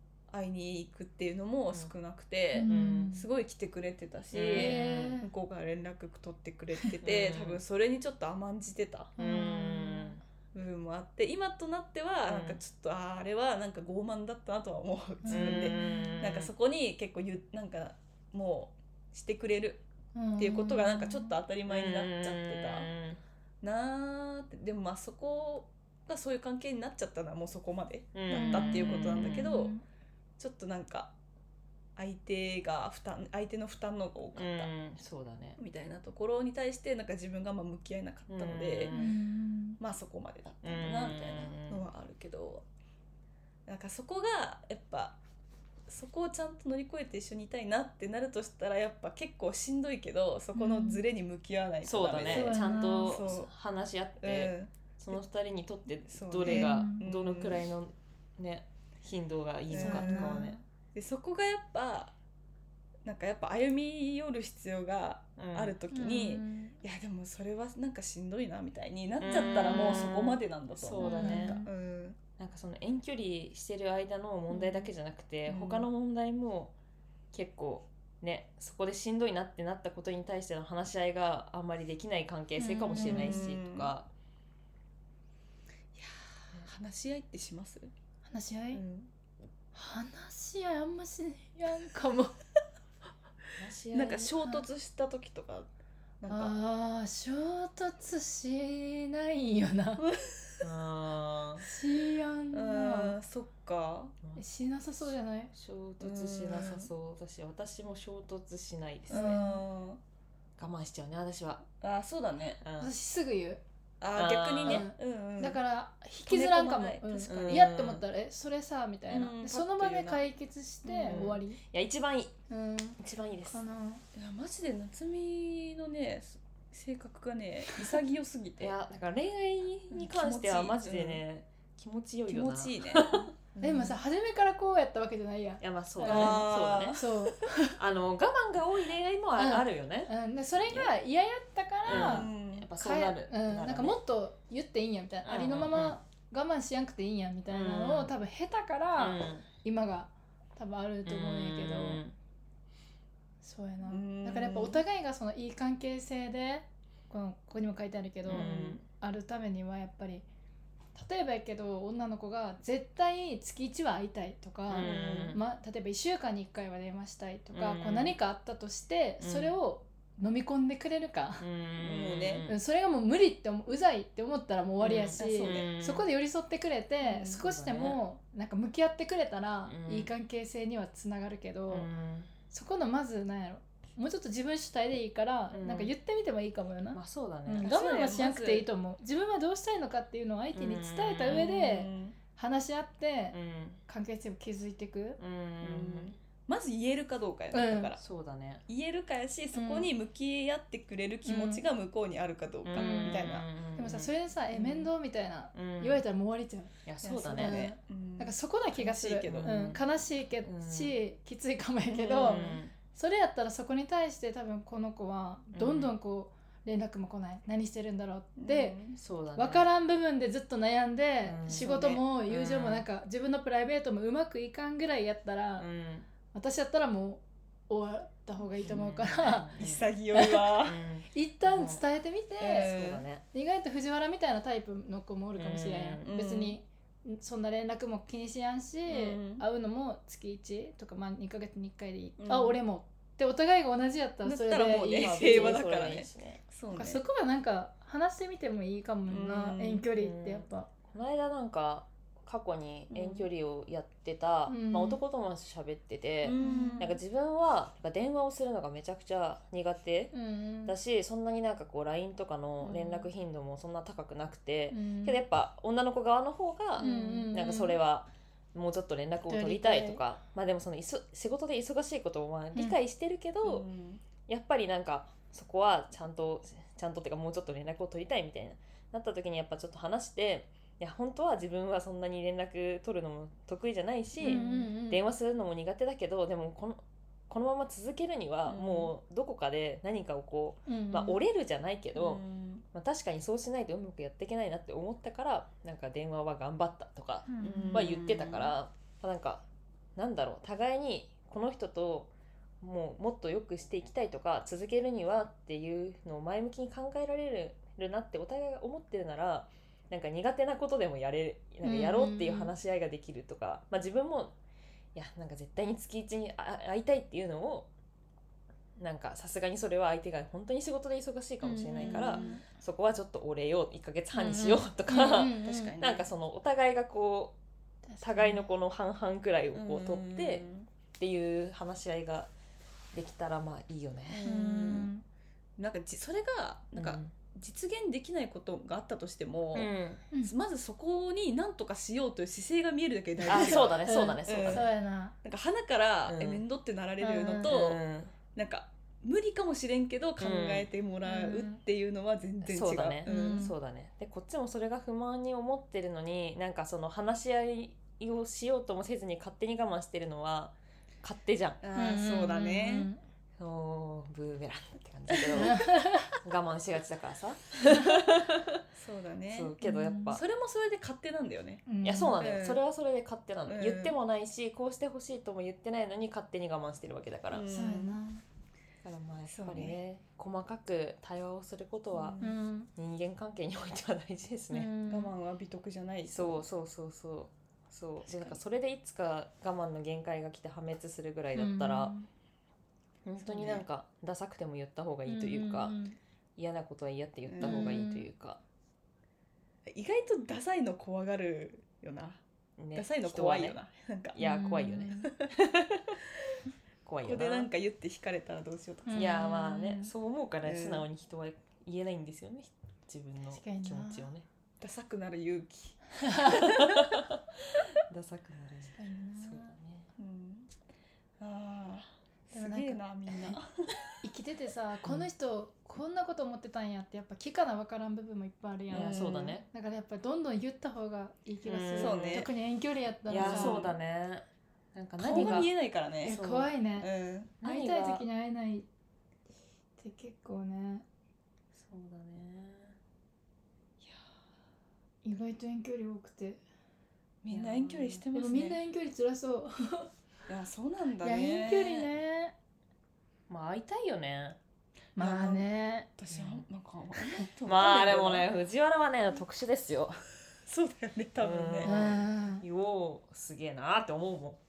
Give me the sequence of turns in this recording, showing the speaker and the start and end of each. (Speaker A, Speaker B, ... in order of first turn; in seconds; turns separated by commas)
Speaker A: 0.3-9.2, Speaker B: 2.5-3.2, Speaker C: 2.6-3.1, Speaker C: 4.3-5.2, Speaker B: 4.5-5.3, Speaker C: 7.0-7.6, Speaker B: 9.2-10.2, Speaker C: 9.2-10.2, Speaker A: 10.5-19.8, Speaker C: 12.3-12.6, Speaker B: 15.2-16.1, Speaker C: 15.3-16.5, Speaker B: 20.1-21.3, Speaker A: 20.4-22.9, Speaker C: 21.7-23.2, Speaker A: 23.6-29.7, Speaker C: 28.1-29.6, Speaker B: 28.3-29.8, Speaker A: 30.4-31.1, Speaker A: 31.9-34.7, Speaker C: 34.3-35.6, Speaker A: 35.6-39.0, Speaker C: 38.3-39.1, Speaker B: 38.9-39.8, Speaker A: 39.8-42.6, Speaker C: 40.6-41.8, Speaker A: 43.6-45.2, Speaker A: 45.9-53.5, Speaker B: 50.5-51.0, Speaker C: 51.8-60.6, Speaker B: 52.2-53.2, Speaker A: 54.2-55.2, Speaker A: 56.0-57.7, Speaker B: 56.4-57.0, Speaker A: 59.7-62.1, Speaker B: 59.7-60.6, Speaker A: 63.0-72.2, Speaker C: 65.4-65.8, Speaker B: 65.9-66.8, Speaker C: 69.2-71.6, Speaker B: 71.0-71.7, Speaker C: 72.4-76.7, Speaker B: 74.5-74.8, Speaker A: 75.5-75.9, Speaker C: 77.3-84.1, Speaker B: 82.6-83.4, Speaker A: 83.0-83.9, Speaker A: 85.9-87.9, Speaker B: 88.2-88.8, Speaker A: 88.7-89.1, Speaker B: 89.7-92.3, Speaker C: 93.6-94.3, Speaker A: 93.9-95.7, Speaker A: 96.2-96.5, Speaker B: 96.3-100.0, Speaker A: 100.0-100.6, Speaker C: 100.6-101.6, Speaker B: 101.6-103.2, Speaker A: 102.5-104.2, Speaker B: 104.4-105.5, Speaker C: 105.5-109.4, Speaker A: 106.0-106.9, Speaker B: 109.1-109.6, Speaker A: 109.1-110.0, Speaker C: 110.6-111.6, Speaker A: 111.8-112.6, Speaker C: 112.6-112.9, Speaker B: 112.8-113.6, Speaker A: 114.0-115.6, Speaker C: 114.1-114.9, Speaker B: 114.6-121.6, Speaker A: 116.2-117.4, Speaker C: 117.3-118.0, Speaker A: 119.1-120.2, Speaker A: 120.8-121.3, Speaker C: 121.0-122.3, Speaker B: 122.5-123.0, Speaker C: 123.0-123.6, Speaker B: 123.5-124.0, Speaker A: 124.1-128.8, Speaker C: 128.6-133.3, Speaker A: 129.9-131.2, Speaker A: 132.3-134.0, Speaker B: 133.6-137.7, Speaker C: 135.6-137.0, Speaker A: 136.0-137.1, Speaker C: 137.7-140.1, Speaker B: 139.3-152.0, Speaker C: 141.8-144.0, Speaker A: 141.9-142.7, Speaker C: 145.2-146.0, Speaker C: 147.5-148.1, Speaker C: 149.0-149.5, Speaker C: 151.0-152.2, Speaker B: 153.4-160.2, Speaker A: 153.8-154.8, Speaker C: 158.3-158.8, Speaker A: 158.3-158.8, Speaker B: 160.9-171.4, Speaker C: 164.7-165.4, Speaker A: 164.8-165.4, Speaker C: 167.5-168.2, Speaker C: 169.2-169.6, Speaker C: 171.4-172.6, Speaker A: 171.8-172.4, Speaker B: 172.5-181.9, Speaker C: 174.8-176.1, Speaker A: 175.2-175.7, Speaker C: 177.0-178.0, Speaker C: 179.7-180.1, Speaker C: 181.7-182.3, Speaker B: 182.5-195.2, Speaker C: 185.5-185.9, Speaker C: 186.9-187.7, Speaker A: 187.6-188.7, Speaker C: 190.5-191.7, Speaker A: 191.5-192.2, Speaker C: 193.3-193.8, Speaker C: 195.2-196.2, Speaker A: 195.6-198.0, Speaker B: 197.5-197.9, Speaker C: 197.9-198.6, Speaker A: 198.7-203.4, Speaker B: 199.5-199.9, Speaker B: 201.2-201.7, Speaker C: 202.6-204.1, Speaker B: 202.7-206.7, Speaker A: 204.5-204.9, Speaker C: 205.5-206.0, Speaker C: 206.8-207.6, Speaker A: 207.0-209.5, Speaker B: 207.3-218.8, Speaker C: 209.2-209.8, Speaker C: 210.4-211.0, Speaker A: 211.9-212.6, Speaker C: 212.1-212.7, Speaker C: 215.5-215.9, Speaker A: 218.4-219.0, Speaker C: 219.0-219.7, Speaker B: 219.3-225.7, Speaker C: 221.2-222.8, Speaker A: 221.5-222.0, Speaker C: 225.6-226.1, Speaker B: 226.3-229.6, Speaker C: 228.6-229.9, Speaker A: 229.6-230.8, Speaker B: 230.1-230.5, Speaker C: 230.6-231.8, Speaker B: 231.1-232.7, Speaker A: 232.4-233.0, Speaker C: 232.5-233.2, Speaker B: 233.3-245.6, Speaker C: 235.3-236.1, Speaker A: 236.0-236.6, Speaker A: 238.9-239.4, Speaker A: 242.2-242.6, Speaker A: 244.2-247.0, Speaker C: 244.9-246.4, Speaker B: 246.7-250.7, Speaker A: 249.1-249.8, Speaker C: 250.0-260.1, Speaker A: 252.9-253.3, Speaker B: 254.5-255.0, Speaker A: 256.2-257.0, Speaker B: 256.4-256.9, Speaker B: 260.1-260.8, Speaker C: 260.6-273.6, Speaker B: 262.6-263.0, Speaker B: 264.7-265.2, Speaker A: 266.8-267.3, Speaker B: 266.8-267.8, Speaker B: 269.3-270.0, Speaker A: 273.4-274.0, Speaker C: 274.3-292.2, Speaker B: 284.2-285.0, Speaker A: 284.2-284.6, Speaker A: 288.4-288.9, Speaker B: 290.7-291.2, Speaker A: 291.9-292.6, Speaker C: 292.7-299.4, Speaker B: 297.3-297.8, Speaker A: 297.4-298.5, Speaker C: 299.9-314.3, Speaker B: 311.6-312.5, Speaker C: 314.9-317.7, Speaker C: 318.8-327.4, Speaker B: 321.4-322.4, Speaker A: 321.8-322.4, Speaker B: 324.1-325.8, Speaker A: 325.4-326.1, Speaker B: 327.9-328.4, Speaker C: 328.0-330.4, Speaker A: 329.5-330.7, Speaker C: 331.0-332.3, Speaker C: 332.9-334.3, Speaker A: 334.1-334.9, Speaker B: 334.2-335.0, Speaker A: 335.6-339.7, Speaker C: 336.8-337.1, Speaker C: 339.5-340.0, Speaker A: 340.2-344.7, Speaker B: 343.2-345.1, Speaker C: 343.3-344.7, Speaker A: 345.2-347.8, Speaker C: 346.1-346.4, Speaker B: 347.0-347.5, Speaker C: 347.4-348.1, Speaker A: 348.3-353.5, Speaker C: 350.2-350.7, Speaker B: 351.0-351.6, Speaker C: 352.4-361.6, Speaker B: 353.0-353.5, Speaker A: 361.6-362.9, Speaker B: 361.8-363.0, Speaker C: 363.4-365.6, Speaker A: 365.1-365.5, Speaker B: 365.4-366.1, Speaker C: 366.2-368.6, Speaker A: 368.7-369.5, Speaker C: 369.3-370.2, Speaker B: 369.6-370.2, Speaker A: 370.1-371.6, Speaker B: 371.7-372.2, Speaker C: 371.8-377.4, Speaker A: 372.2-372.6, Speaker A: 373.5-373.9, Speaker A: 377.3-378.0, Speaker B: 377.5-378.2, Speaker C: 378.8-382.2, Speaker A: 379.3-379.8, Speaker A: 381.9-382.4, Speaker B: 382.2-382.7, Speaker C: 382.7-384.7, Speaker B: 384.5-385.1, Speaker A: 384.9-386.4, Speaker C: 386.1-391.9, Speaker B: 388.1-388.4, Speaker B: 391.3-392.1, Speaker C: 393.0-395.8, Speaker A: 393.2-393.6, Speaker B: 395.0-396.0, Speaker C: 396.4-398.4, Speaker A: 397.3-397.8, Speaker B: 397.4-398.1, Speaker A: 399.7-402.2, Speaker C: 402.6-403.6, Speaker A: 402.7-404.2, Speaker C: 404.1-405.9, Speaker B: 404.1-405.1, Speaker C: 406.8-407.5, Speaker A: 407.0-409.1, Speaker B: 408.9-409.9, Speaker C: 408.9-414.2, Speaker A: 410.4-410.8, Speaker B: 413.3-414.1, Speaker A: 414.6-417.0, Speaker B: 415.9-416.5, Speaker C: 416.4-417.2, Speaker C: 417.9-419.9, Speaker B: 418.7-419.5, Speaker A: 420.0-420.5, Speaker A: 421.2-423.5, Speaker B: 422.3-423.4, Speaker B: 424.0-433.6, Speaker A: 428.7-429.4, Speaker C: 428.7-429.4, Speaker C: 431.4-432.3, Speaker A: 431.8-432.3, Speaker A: 433.1-433.8, Speaker C: 433.1-435.5, Speaker A: 435.0-436.2, Speaker B: 435.1-435.4, Speaker B: 436.0-436.9, Speaker C: 436.0-436.5, Speaker A: 436.8-437.3, Speaker C: 437.4-438.0, Speaker B: 437.4-438.7, Speaker B: 439.8-440.8, Speaker C: 441.5-442.8, Speaker B: 445.0-446.4, Speaker A: 447.2-448.6, Speaker C: 447.3-448.0, Speaker B: 448.1-449.9, Speaker A: 450.3-451.9, Speaker B: 451.0-452.3, Speaker C: 453.3-454.4, Speaker B: 454.9-455.9, Speaker A: 455.0-458.3, Speaker C: 456.1-456.4, Speaker C: 457.4-460.0, Speaker A: 460.4-461.7, Speaker C: 461.2-464.4, Speaker B: 461.6-462.4